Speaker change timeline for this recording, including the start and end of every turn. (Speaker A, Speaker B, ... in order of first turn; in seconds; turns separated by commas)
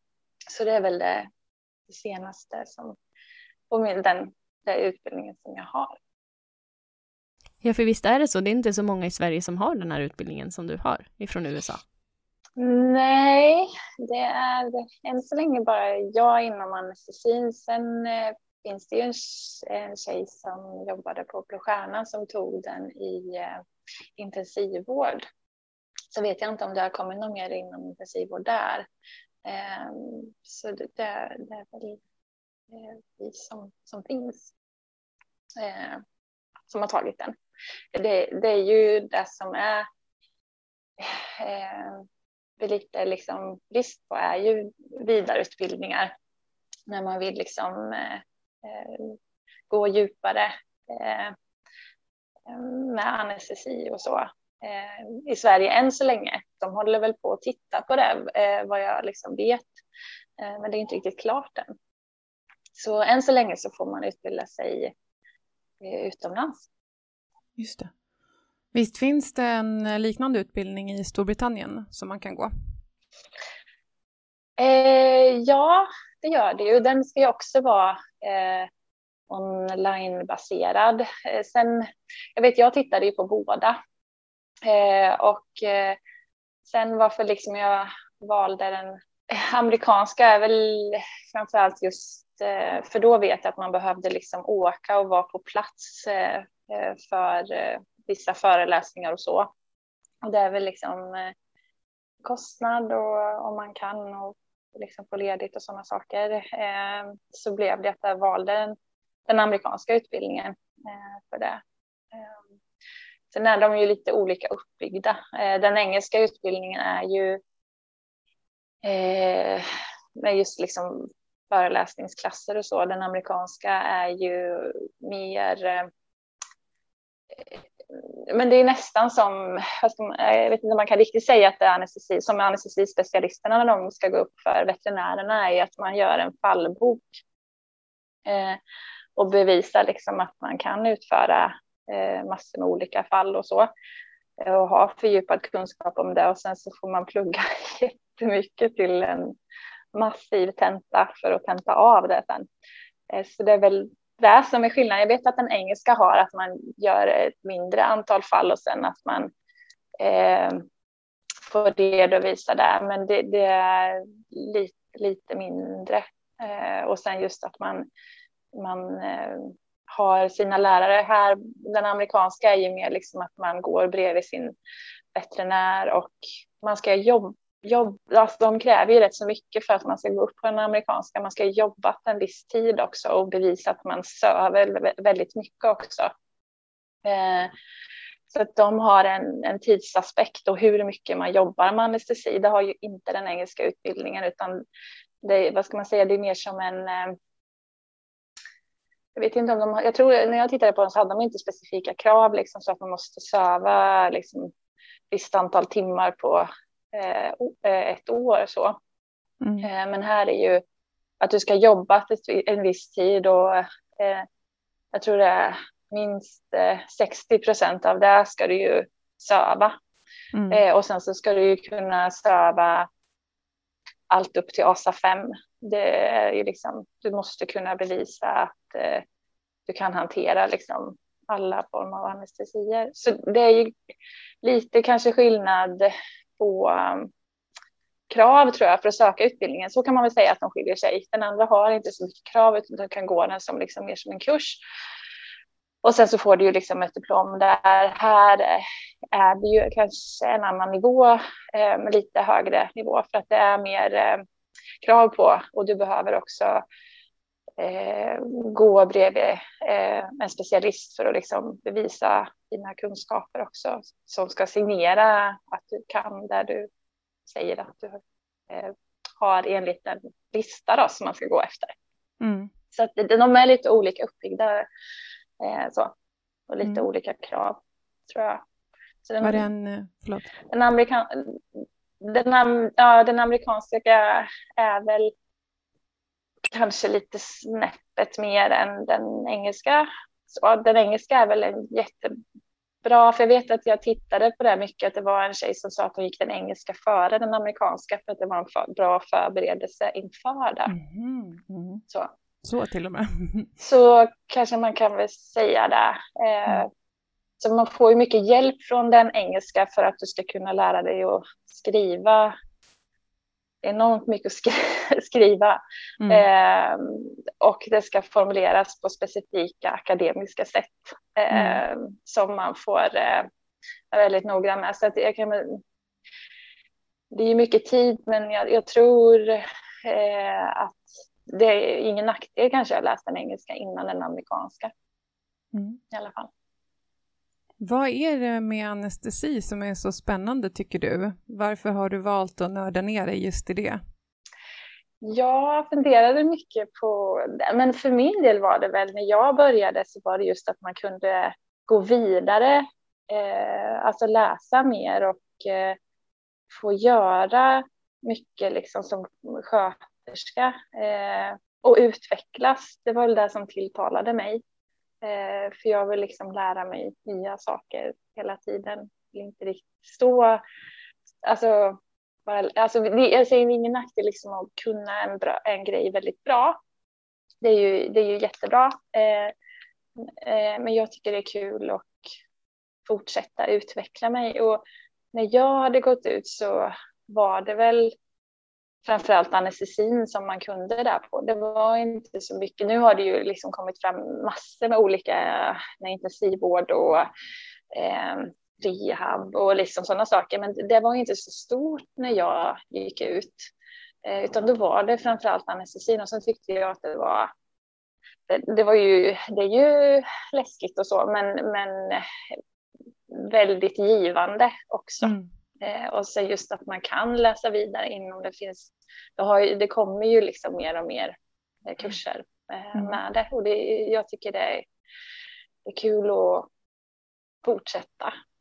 Speaker A: 0.5-1.3, Speaker A: 1.9-3.0, Speaker A: 3.7-6.0, Speaker B: 7.6-11.8, Speaker A: 12.6-23.6, Speaker A: 24.2-25.2, Speaker A: 26.1-28.9, Speaker A: 29.4-32.0, Speaker A: 32.7-34.5, Speaker A: 35.5-36.0, Speaker A: 36.7-37.3, Speaker A: 37.9-39.9, Speaker A: 41.0-42.0, Speaker A: 42.6-46.1, Speaker A: 46.9-49.2, Speaker A: 49.7-51.3, Speaker A: 52.5-59.8, Speaker A: 60.4-61.7, Speaker A: 62.7-64.9, Speaker A: 65.8-66.7, Speaker C: 67.6-67.9, Speaker C: 68.7-72.5, Speaker A: 74.6-78.7, Speaker A: 79.3-83.8, Speaker A: 84.6-86.0, Speaker A: 86.7-99.5, Speaker A: 100.2-101.3, Speaker A: 102.2-108.8, Speaker A: 109.3-111.6, Speaker A: 112.1-112.4, Speaker A: 113.3-117.4, Speaker A: 118.8-119.7, Speaker A: 120.2-125.9, Speaker A: 127.3-137.2, Speaker A: 138.2-138.6, Speaker A: 139.2-143.7, Speaker A: 144.4-149.3, Speaker A: 149.9-152.5, Speaker A: 153.1-159.3, Speaker A: 160.0-160.7, Speaker A: 161.4-167.9, Speaker A: 168.5-174.5, Speaker A: 175.1-186.1, Speaker A: 187.0-187.5, Speaker A: 188.3-194.6, Speaker A: 195.2-197.2, Speaker A: 199.1-204.5, Speaker A: 205.1-208.8, Speaker C: 209.4-209.7, Speaker A: 209.6-210.6, Speaker A: 211.2-214.3, Speaker A: 214.9-219.8, Speaker C: 220.3-220.6, Speaker A: 220.5-222.9, Speaker A: 224.1-229.0, Speaker A: 229.7-233.8, Speaker A: 234.4-237.1, Speaker A: 238.1-244.6, Speaker A: 245.8-254.2, Speaker A: 254.8-256.6, Speaker A: 257.6-266.7, Speaker A: 267.2-271.8, Speaker C: 272.2-272.5, Speaker A: 272.7-274.6, Speaker A: 275.4-275.9, Speaker A: 276.5-278.4, Speaker A: 279.0-279.4, Speaker C: 279.2-280.3, Speaker A: 280.5-281.4, Speaker A: 282.0-285.1, Speaker A: 286.5-292.2, Speaker A: 292.8-300.7, Speaker C: 300.7-301.8, Speaker C: 302.4-303.5, Speaker A: 303.6-306.7, Speaker A: 307.4-312.3, Speaker A: 313.6-323.3, Speaker C: 316.0-316.2, Speaker C: 321.3-321.6, Speaker A: 323.9-325.6, Speaker A: 327.1-334.7, Speaker C: 335.5-335.8, Speaker A: 335.9-336.3, Speaker C: 337.6-343.8, Speaker A: 345.0-355.8, Speaker A: 356.5-364.4, Speaker A: 365.0-370.4, Speaker A: 371.2-376.6, Speaker A: 377.4-379.3, Speaker A: 380.0-382.0, Speaker A: 382.9-387.9, Speaker A: 388.8-397.1, Speaker A: 397.7-403.5, Speaker A: 404.0-407.3, Speaker A: 408.3-412.1, Speaker A: 413.1-424.7, Speaker C: 415.0-415.3, Speaker A: 425.6-426.5, Speaker A: 427.4-428.1